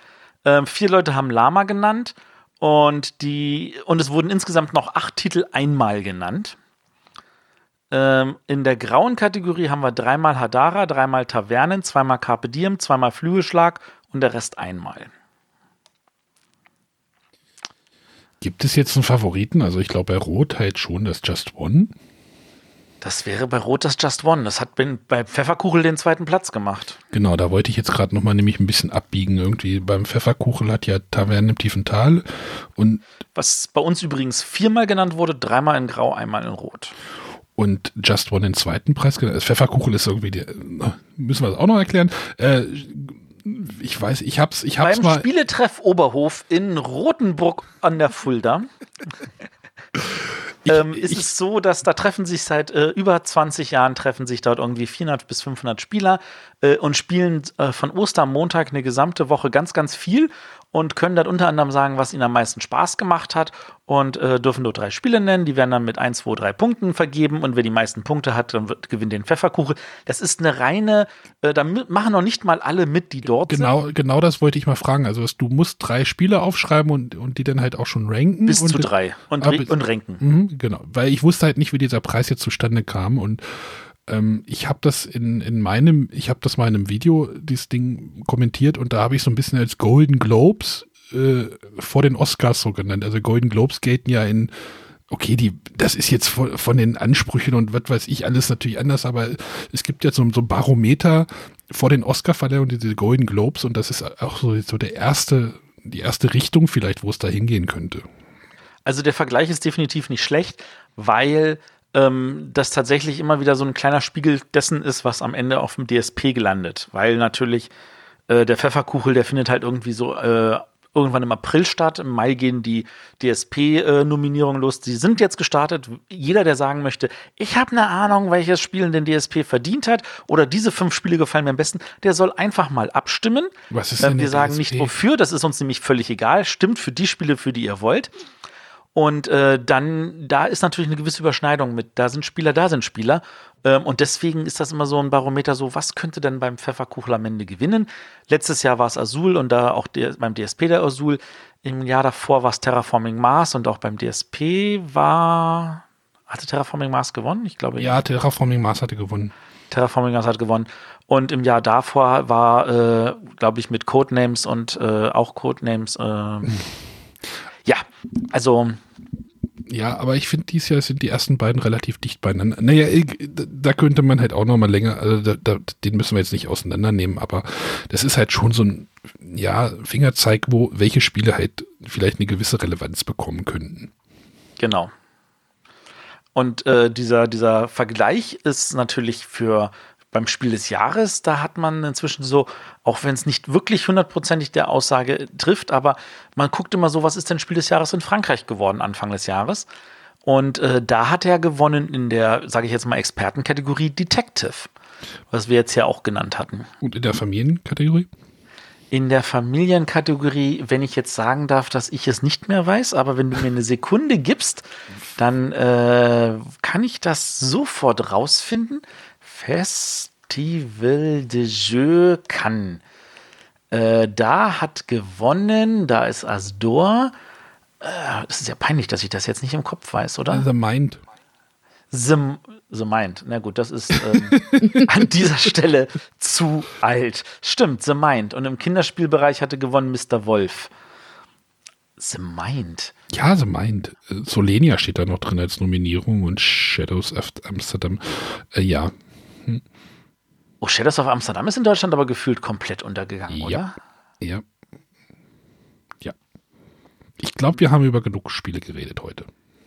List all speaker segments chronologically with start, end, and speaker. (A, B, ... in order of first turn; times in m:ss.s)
0:00.4-0:06.6 A
0:07.9-0:15.1 A
0:18.4-0:21.9 B
0:23.0-0:27.0 A
0:27.1-0:33.0 B
0:33.4-0:36.9 A
0:37.6-0:45.3 B
0:44.8-0:48.7 A
0:50.6-0:51.3 B
0:50.7-1:13.7 A
1:13.5-1:34.5 B
1:18.5-1:20.2 A
1:35.1-1:48.1 B
1:48.9-1:57.7 A
1:58.3-2:18.1 A
2:13.7-2:15.0 B
2:19.0-2:38.0 A
2:37.8-2:39.3 B
2:39.7-2:46.5 A
2:47.7-2:48.8 A
2:49.7-3:03.9 B
3:04.6-3:04.9 A
3:06.4-3:19.7 A
3:20.2-3:24.7 A
3:25.3-3:26.7 A
3:26.8-3:28.1 B
3:28.9-3:34.7 A
3:35.2-3:42.8 A
3:43.7-3:47.1 A
3:47.8-3:50.4 A
3:50.3-3:51.0 B
3:51.9-4:00.7 A
3:54.3-3:54.6 B
4:02.0-4:02.9 A
4:03.1-4:09.6 B
4:10.6-4:13.7 A
4:13.3-4:13.6 B
4:17.2-4:19.3 B